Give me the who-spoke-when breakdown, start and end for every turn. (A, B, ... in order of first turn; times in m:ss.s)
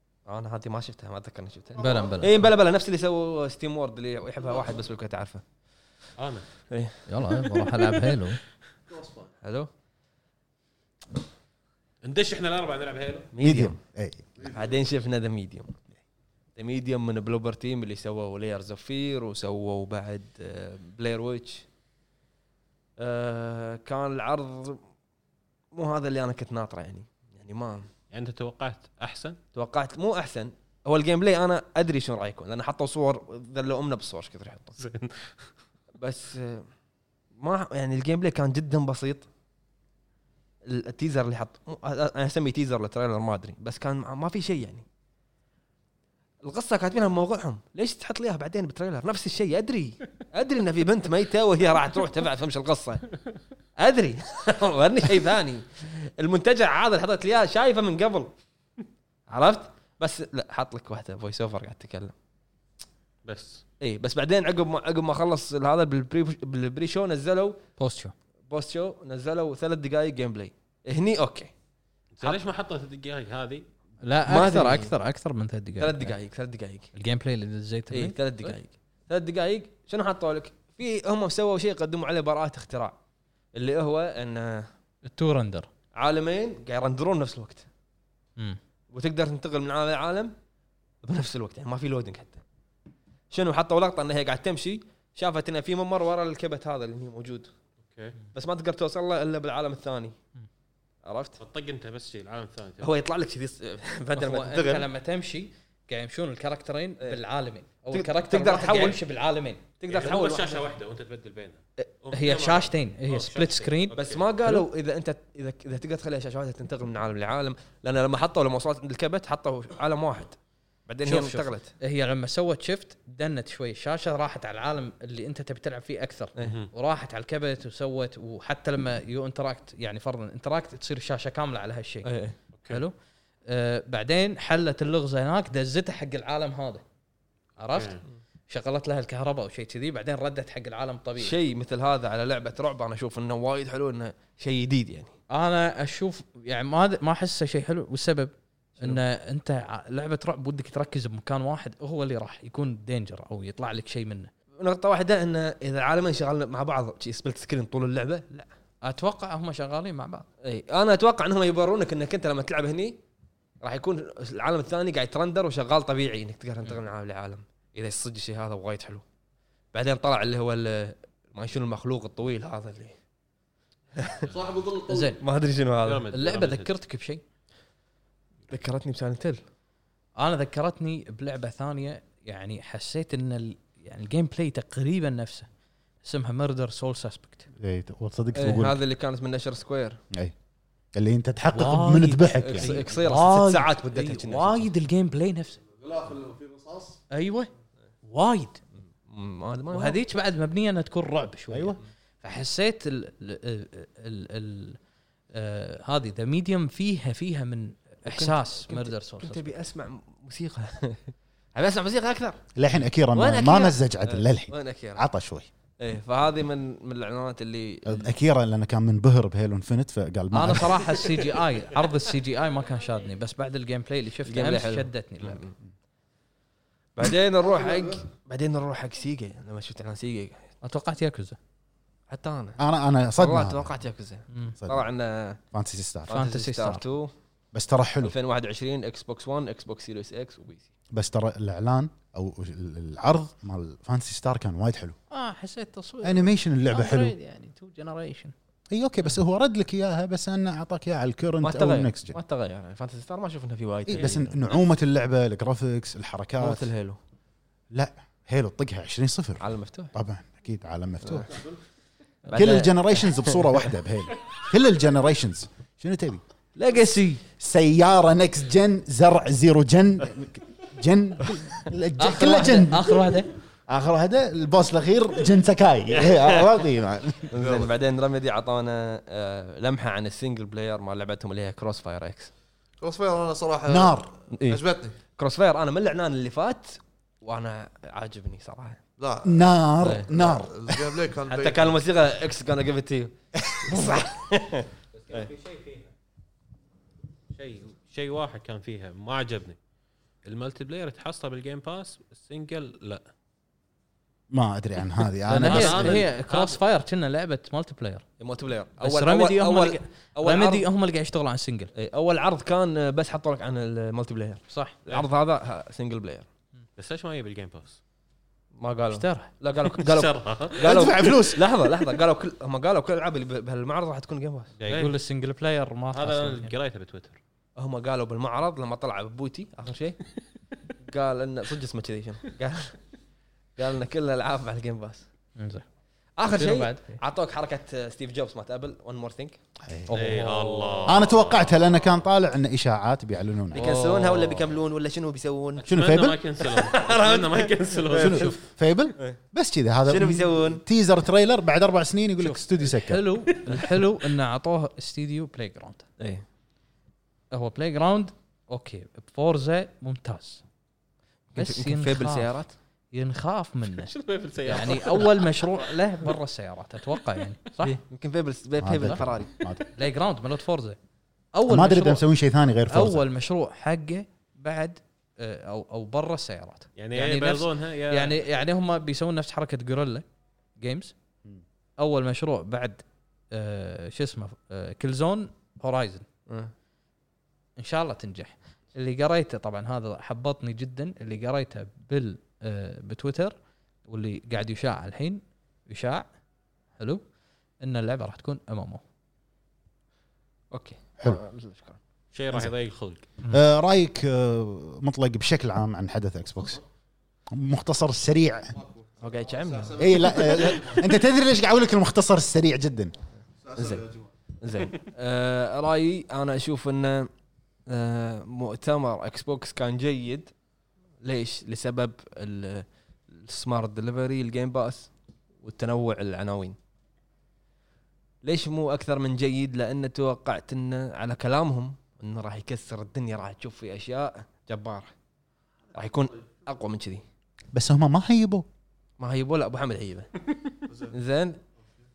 0:00.2-0:05.4 A
0:01.8-0:02.5 B
0:01.8-0:02.1 C
0:06.2-0:06.5 D
0:06.7-0:07.7 A
0:07.1-0:08.4 B
0:08.9-0:09.3 C
0:09.4-0:09.7 A
0:12.0-0:13.3 D
0:13.3-0:13.8 A
0:13.4-0:14.2 E
0:14.4-0:14.7 C
0:14.4-0:15.7 A
0:16.6-0:21.6 A
0:23.0-0:24.8 A
0:25.7-0:27.9 A
0:28.1-0:29.4 D
0:29.5-0:34.8 A
0:34.8-0:35.4 D
0:36.0-0:36.7 A
0:37.4-0:39.3 A
0:40.6-0:44.8 A
0:46.4-0:53.1 A
0:53.8-0:58.3 A
0:59.3-1:02.1 A
1:03.2-1:03.6 D
1:03.8-1:07.6 A
1:07.8-1:08.1 B
1:08.5-1:11.5 A
1:12.2-1:13.6 D
1:14.0-1:16.1 B
1:14.2-1:14.9 A
1:15.8-1:16.9 A
1:16.9-1:18.5 B
1:17.9-1:23.0 A
1:23.5-1:24.7 A
1:25.0-1:25.7 B
1:26.0-1:27.7 A
1:28.9-1:30.3 A
1:31.0-1:32.4 A
1:33.3-1:37.5 A
1:37.8-1:38.2 D
1:38.3-1:40.2 A
1:41.0-1:41.4 A
1:41.4-1:42.9 D
1:42.8-1:44.9 A
1:44.2-1:49.6 B
1:47.9-1:49.0 A
1:49.8-1:50.6 A
1:49.9-1:54.2 D
1:52.1-1:54.6 B
1:53.9-2:00.4 A
2:00.9-2:01.7 A
2:01.0-2:12.1 B
2:06.4-2:06.7 D
2:12.0-2:12.4 A
2:12.5-2:12.8 D
2:12.7-2:12.9 B
2:13.5-2:16.8 B
2:17.6-2:21.4 B
2:17.7-2:18.0 D
2:21.2-2:25.1 A
2:25.3-2:34.3 B
2:34.6-2:38.5 A
2:38.8-2:40.2 B
2:40.4-2:43.0 A
2:43.6-2:49.0 A
2:49.7-2:53.0 A
2:54.0-2:54.3 A
2:54.3-2:55.1 C
2:54.9-2:55.2 B
2:55.2-2:56.1 A
2:55.8-2:56.7 D
2:56.1-2:57.2 B
2:58.5-2:59.4 A
3:00.2-3:05.5 B
3:06.0-3:07.5 B
3:07.6-3:08.8 E
3:08.3-3:10.0 A
3:10.9-3:12.7 E
3:11.5-3:15.6 B
3:12.4-3:14.7 A
3:15.8-3:17.0 C
3:17.1-3:17.5 B
3:18.1-3:18.6 B
3:19.0-3:20.0 A
3:19.7-3:24.8 B
3:21.5-3:21.8 E
3:25.3-3:29.6 B
3:28.0-3:32.4 A
3:32.6-3:35.5 E
3:33.1-3:35.0 A
3:35.8-3:38.1 A
3:37.8-3:40.8 E
3:40.3-3:45.4 B
3:44.2-3:45.5 A
3:47.0-3:50.5 A
3:47.4-3:48.0 C
3:50.6-3:51.4 B
3:52.1-3:52.6 A
3:52.6-3:53.7 E
3:53.2-3:55.4 A
3:54.3-3:54.5 B
3:55.5-3:56.1 E
3:56.1-3:57.1 A
3:56.1-3:56.8 B
3:57.5-3:58.1 E
3:58.0-4:00.7 A
4:00.9-4:05.0 E
4:05.1-4:08.3 B
4:06.0-4:07.1 E
4:08.7-4:12.2 E
4:11.4-4:14.6 A
4:13.9-4:16.7 E
4:16.4-4:17.0 A
4:17.7-4:21.3 E
4:19.4-4:19.9 A
4:22.3-4:23.6 A
4:22.3-4:26.2 E
4:26.6-4:27.2 B
4:27.4-4:33.0 E
4:32.0-4:33.3 B
4:33.7-4:37.3 E
4:36.0-4:36.4 A
4:37.3-4:42.3 A
4:37.4-4:37.7 C
4:42.8-4:45.0 C
4:43.7-4:44.1 E
4:44.3-4:44.6 A
4:45.2-4:48.8 A
4:49.0-4:51.8 C
4:49.2-4:50.9 E
4:49.8-4:50.1 A
4:51.2-4:55.3 A
4:53.6-4:54.0 E
4:54.9-4:55.9 D
4:57.3-4:59.6 D
5:00.2-5:03.0 D
5:04.3-5:06.0 E
5:05.3-5:08.0 B
5:05.4-5:06.6 D
5:08.2-5:10.7 A
5:08.8-5:11.7 B
5:11.7-5:16.3 A
5:14.5-5:14.8 B
5:16.8-5:17.8 D
5:18.6-5:24.5 A
5:18.9-5:19.3 B
5:19.8-5:20.6 D
5:20.6-5:21.4 E
5:24.6-5:25.0 D
5:24.6-5:26.5 B
5:25.9-5:27.2 D
5:27.6-5:30.0 A
5:30.8-5:32.8 A
5:33.6-5:35.0 A
5:35.4-5:35.6 B
5:36.2-5:39.4 A
5:36.3-5:37.0 B
5:39.6-5:39.9 E
5:39.9-5:40.8 B
5:39.9-5:42.0 D
5:40.2-5:41.0 A
5:40.8-5:43.7 E
5:43.5-5:44.4 B
5:43.5-5:45.7 A
5:45.6-5:48.4 D
5:45.6-5:46.2 E
5:46.4-5:48.4 A
5:47.9-5:53.0 E
5:49.8-5:50.6 A
5:52.2-5:55.8 B
5:56.0-5:56.2 A
5:57.3-6:00.4 B
6:01.3-6:02.5 A
6:01.4-6:02.3 B
6:02.9-6:03.9 B
6:03.8-6:05.4 D
6:04.4-6:07.8 B
6:07.6-6:09.3 A
6:08.6-6:09.6 E
6:09.7-6:10.8 B
6:11.3-6:12.0 B
6:11.5-6:13.0 E
6:12.7-6:20.0 B
6:16.8-6:18.1 D
6:20.6-6:20.9 B
6:21.8-6:26.0 B
6:27.6-6:33.3 B
6:33.9-6:36.1 B
6:36.8-6:37.0 B
6:37.6-6:38.8 B
6:40.5-6:41.8 A
6:42.1-6:43.0 D
6:43.3-6:46.6 E
6:47.3-6:48.5 E
6:48.5-6:50.9 C
6:49.0-6:50.4 A
6:49.8-6:52.9 E
6:53.4-6:54.1 C
6:53.6-6:53.8 A
6:54.4-6:57.1 A
6:57.7-7:00.3 A
7:01.0-7:04.9 A
7:05.4-7:06.6 A
7:08.2-7:14.9 A
7:15.7-7:17.0 A
7:17.5-7:18.4 E
7:19.0-7:20.1 A
7:20.7-7:20.9 C
7:20.9-7:21.4 A